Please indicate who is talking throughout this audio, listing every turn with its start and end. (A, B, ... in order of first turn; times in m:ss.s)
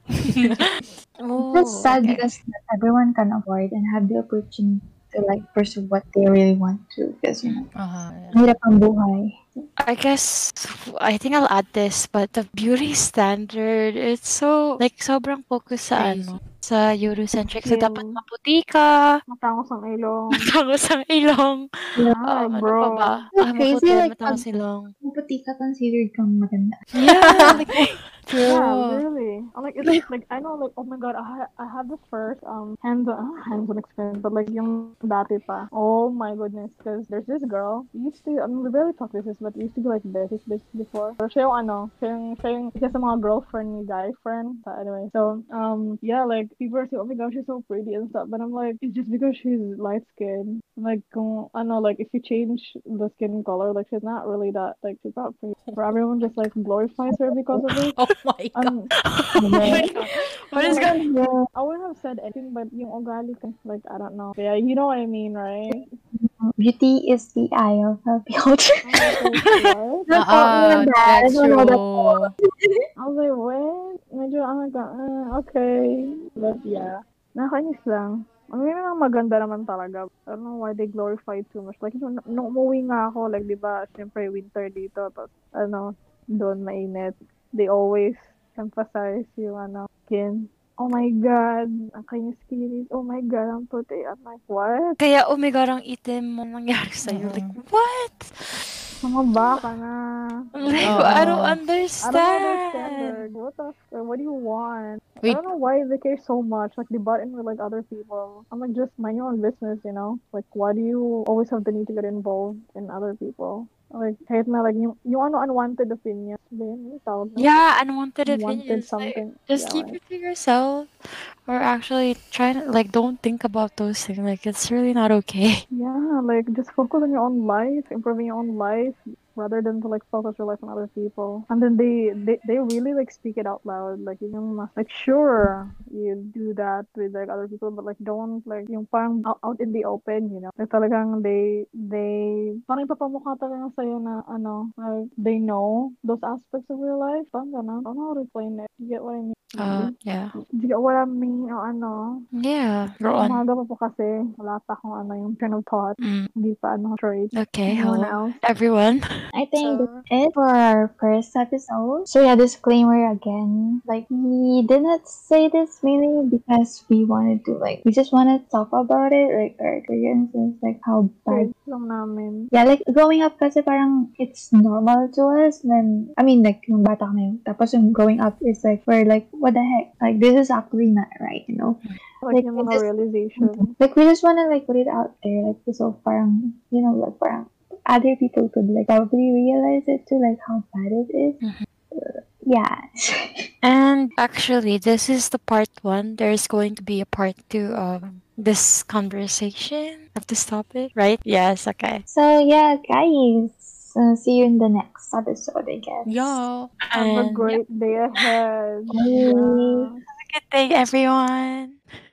0:00.2-0:02.3 A
0:01.4-0:07.6 B
0:07.8-0:08.4 C
0:08.3-0:09.6 B
0:09.8-0:19.2 A
0:16.0-0:16.4 C
0:17.6-0:18.2 D
0:19.3-0:20.4 D
0:20.3-0:24.9 A
0:22.2-0:23.1 D
0:23.4-0:24.4 B
0:25.0-0:26.8 B
0:26.9-0:28.0 A
0:27.0-0:27.6 C
0:28.3-0:29.0 C
0:28.4-0:58.0 D
0:55.6-0:56.5 C
0:57.7-0:58.8 C
0:58.5-0:58.9 D
0:59.0-1:01.0 A
0:59.4-0:59.9 B
1:00.5-1:00.9 D
1:00.6-1:01.5 B
1:01.5-1:05.9 D
1:05.7-1:09.2 B
1:08.8-1:10.1 D
1:10.1-1:12.8 B
1:10.1-1:12.3 C
1:13.0-1:35.0 D
1:35.0-1:38.3 A
1:37.0-1:37.5 C
1:39.0-1:41.4 D
1:39.4-1:39.6 A
1:40.5-1:43.2 A
1:40.8-1:41.6 C
1:42.0-1:57.5 D
1:57.4-2:00.9 A
1:58.2-2:00.0 D
2:01.5-2:05.6 A
2:05.7-2:29.9 D
2:29.6-2:30.3 A
2:30.5-2:32.2 D
2:32.3-2:33.4 A
2:33.2-2:38.4 D
2:36.0-2:36.3 A
2:37.3-2:39.0 A
2:37.8-2:38.1 B
2:39.3-2:51.5 B
2:39.6-2:40.0 A
2:51.3-2:52.5 D
2:52.5-3:11.4 B
3:02.2-3:03.7 D
3:11.9-3:13.5 B
3:13.6-3:22.0 A
3:22.1-3:26.4 B
3:26.0-3:26.7 C
3:26.8-3:27.6 A
3:26.9-3:30.0 D
3:28.9-3:29.9 B
3:30.1-3:31.8 A